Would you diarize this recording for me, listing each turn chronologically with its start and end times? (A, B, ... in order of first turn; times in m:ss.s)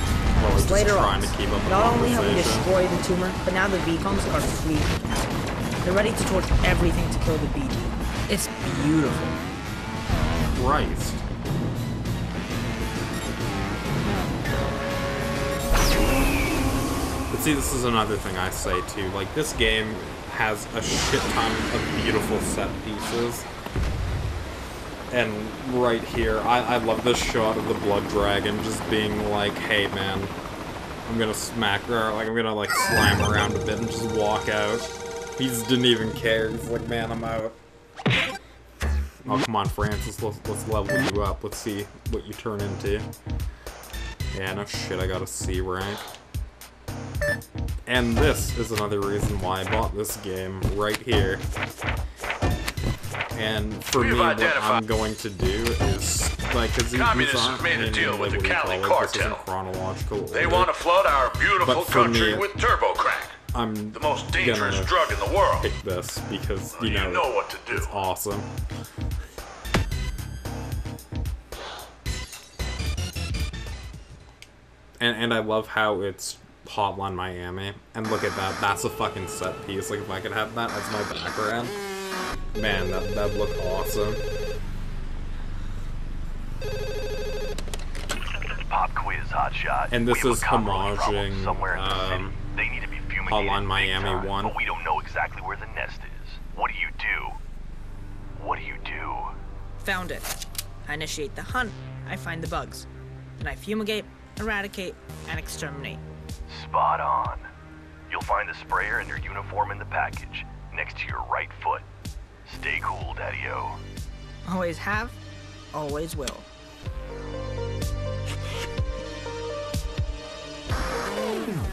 0:00.4-0:02.7 A
0:00.5-0:05.3 B
0:05.8-0:09.4 B
0:10.5-0:11.2 A
0:17.3-0:23.5 A
0:25.1-0:30.3 A
0:31.1-0:37.6 A
0:39.2-0:43.1 A
0:44.3-0:46.1 A
0:47.9-0:51.4 A
0:53.4-1:00.7 A
0:54.0-0:54.8 C
0:56.9-0:59.4 C
1:00.3-1:03.4 C
1:01.6-1:02.5 A
1:03.5-1:08.5 A
1:03.9-1:05.7 C
1:06.8-1:08.0 C
1:15.0-1:21.8 A
1:22.5-1:24.2 A
1:28.5-1:37.4 C
1:29.9-1:32.4 A
1:33.3-1:34.6 A
1:38.4-1:39.3 C
1:39.8-1:42.9 B
1:43.4-1:46.0 B
1:46.5-1:47.5 C
1:48.1-1:51.8 C
1:52.5-1:53.8 C
1:54.4-1:55.2 B
1:55.7-1:56.5 B